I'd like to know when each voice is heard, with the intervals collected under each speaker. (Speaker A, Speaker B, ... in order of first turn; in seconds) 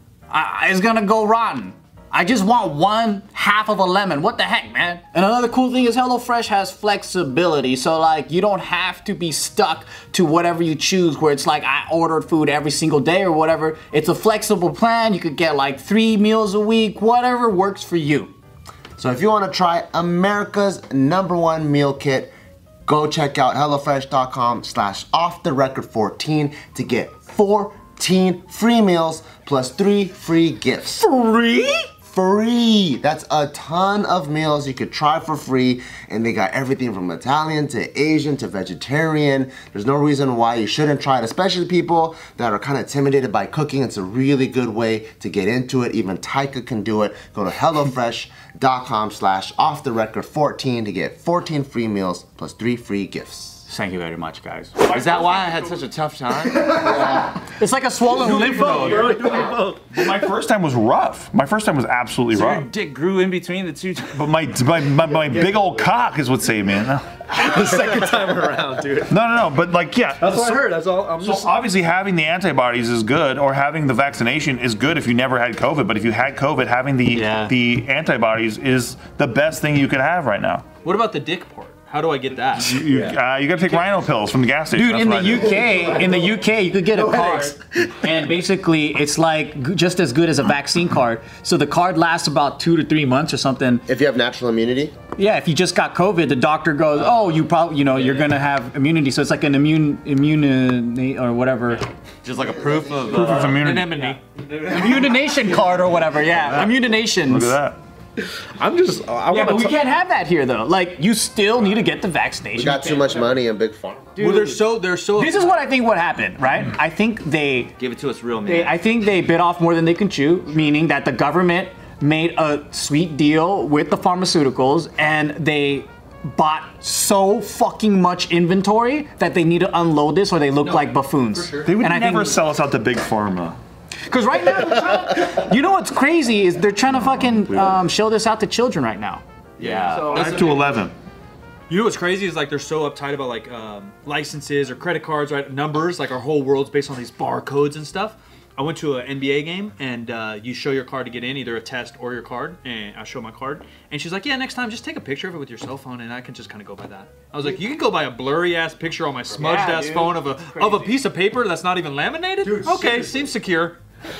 Speaker A: 0.3-18.3, 31.0-31.9, 53.7-54.8, 57.6-59.4, 77.1-77.5, 84.7-93.9, 95.2-101.9, 104.6-107.5, 109.3-113.3, 114.2-117.7, 118.4-132.4, 134.1-140.4, 159.3-161.0
Speaker B: 19.0-22.3, 22.9-31.1, 32.1-53.6, 56.8-57.2, 93.9-95.0, 102.4-103.5, 112.5-114.1
Speaker C: 54.8-56.8, 62.3-64.3, 102.2-103.8, 117.8-118.8, 139.6-140.4
Speaker D: 54.9-55.7, 58.2-59.2, 80.8-82.8, 103.6-104.2, 114.2-115.6, 130.6-131.7, 139.9-140.7, 141.7-163.8
Speaker E: 56.7-57.2, 58.1-60.3, 65.1-65.9, 67.3-69.2, 70.2-71.6, 82.8-83.2, 85.4-86.4, 86.9-87.6, 104.7-106.7, 108.6-109.8, 162.4-163.3
Speaker F: 59.9-62.7, 64.1-67.6, 69.1-70.6, 71.2-80.7, 82.6-85.6, 103.1-104.1, 107.2-107.8, 131.7-133.6, 136.9-137.8, 140.1-140.9